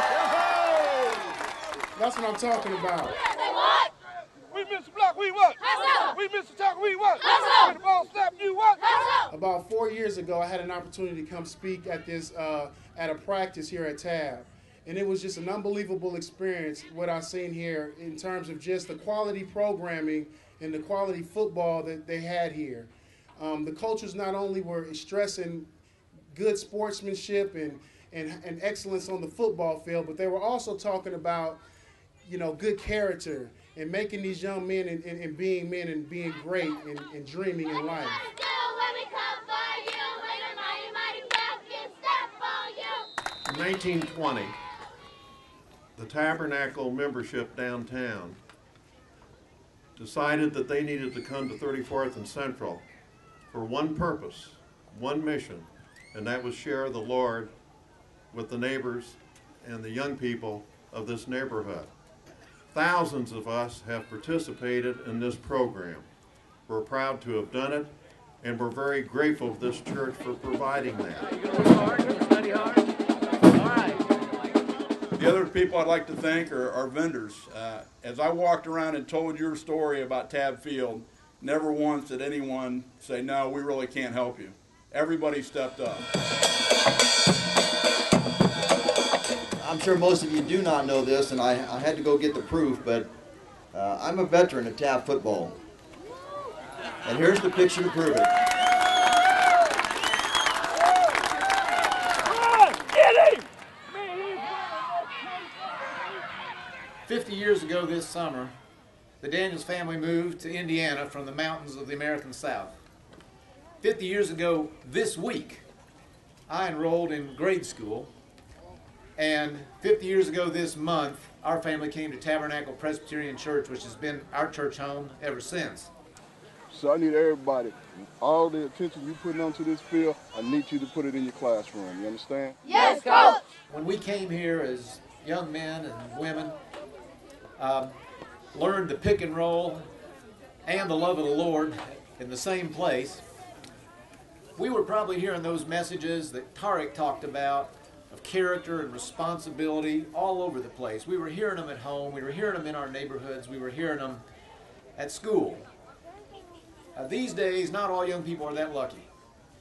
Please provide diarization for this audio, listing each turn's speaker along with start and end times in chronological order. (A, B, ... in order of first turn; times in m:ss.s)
0:00.4-0:01.0 A
0:02.0-0:03.2 B
0:04.5-0:09.0 A
0:09.3-0:25.7 B
0:26.3-0:31.6 B
0:32.2-0:38.3 B
0:38.4-0:43.1 C
0:43.4-0:44.6 D
0:46.0-0:48.4 D
0:50.0-0:52.8 D
0:53.5-0:57.6 D
0:58.3-1:01.9 D
1:02.7-1:06.1 D
1:06.7-1:11.4 D
1:15.2-1:26.1 E
1:29.6-1:33.1 F
1:33.7-1:35.6 F
1:37.0-1:38.3 F
1:47.0-1:48.6 G
1:49.2-1:52.8 G
1:53.8-1:55.6 G
1:56.5-1:58.1 G
1:59.2-2:05.9 G
2:06.7-2:12.6 A
2:12.8-2:13.4 C
2:13.7-2:16.6 G
2:17.6-2:18.0 G
2:18.5-2:19.9 G
2:20.6-2:23.2 G
2:24.6-2:34.2 G
2:35.0-2:35.7 G
2:37.0-2:39.1 G